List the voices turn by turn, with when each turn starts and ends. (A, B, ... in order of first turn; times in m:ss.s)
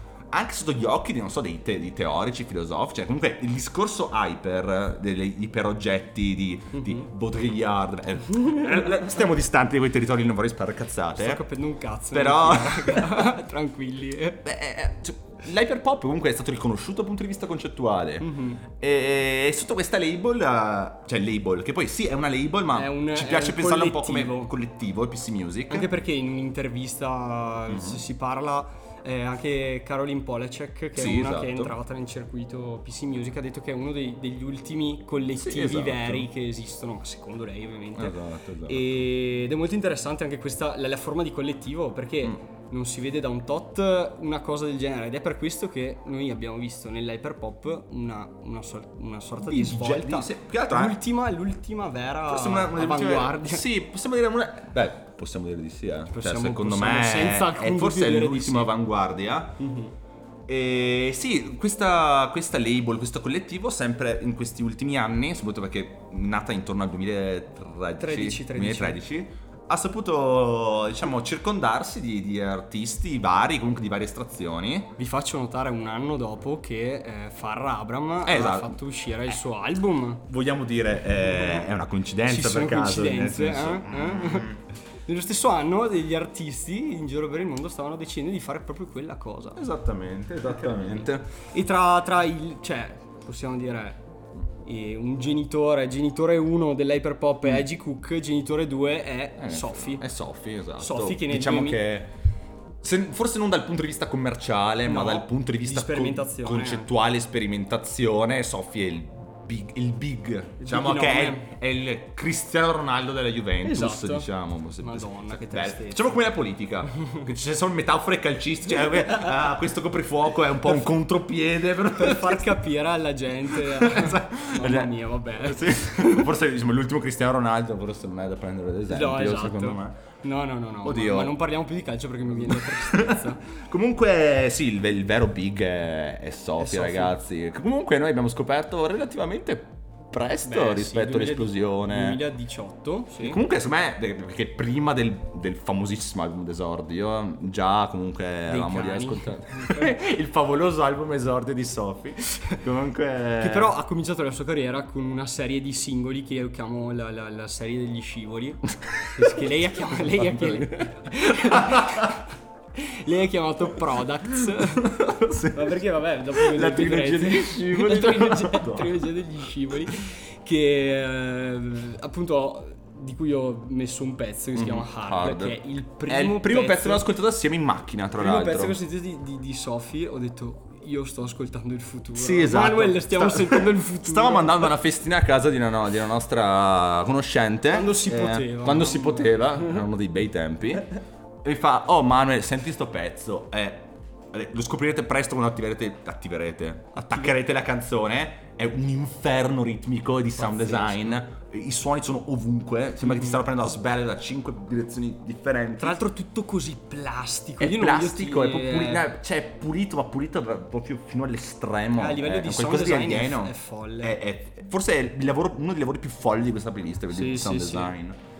0:00.3-0:11.4 A
0:06.8-0:07.0 B
0:08.5-0:08.9 B
0:11.2-0:14.4 B
0:12.1-0:13.3 A
0:14.4-0:25.9 A
0:18.2-0:18.6 B
0:22.7-0:24.5 B
0:25.7-0:53.6 B
0:27.7-0:28.0 A
0:31.0-0:31.7 A
0:35.4-0:36.3 A
0:38.0-0:39.0 A
0:49.4-0:51.0 A
0:52.3-0:59.6 A
0:56.1-0:58.7 B
0:59.6-0:59.9 B
1:00.5-1:14.9 A
1:08.0-1:09.0 B
1:15.0-1:20.2 B
1:18.2-1:18.8 A
1:20.2-1:24.6 A
1:21.2-1:21.6 B
1:22.2-1:24.5 B
1:25.0-1:29.6 B
1:29.6-1:31.3 A
1:30.5-1:34.0 B
1:34.6-1:40.0 B
1:39.4-1:42.1 A
1:40.8-1:41.8 B
1:42.8-2:02.6 A
1:44.8-1:46.9 B
1:50.6-1:51.4 B
1:53.6-1:56.1 B
1:57.0-1:57.3 B
2:02.0-2:06.3 B
2:03.5-2:10.0 A
2:08.9-2:13.4 B
2:10.8-2:11.3 A
2:12.4-2:22.2 A
2:16.6-2:17.2 B
2:20.4-2:23.4 B
2:23.2-2:33.7 A
2:28.5-2:29.9 B
2:33.4-2:42.2 B
2:38.8-2:42.1 A
2:42.7-2:57.0 B
2:44.3-2:45.8 A
2:46.3-2:49.0 A
2:54.5-2:58.8 A
2:58.2-3:04.7 B
3:02.1-3:10.9 A
3:07.7-3:09.8 B
3:11.4-3:26.0 A
3:16.9-3:17.4 B
3:20.4-3:21.2 B
3:23.1-3:23.4 B
3:25.8-3:29.1 B
3:27.6-3:38.2 A
3:32.0-3:34.2 B
3:37.1-3:37.9 B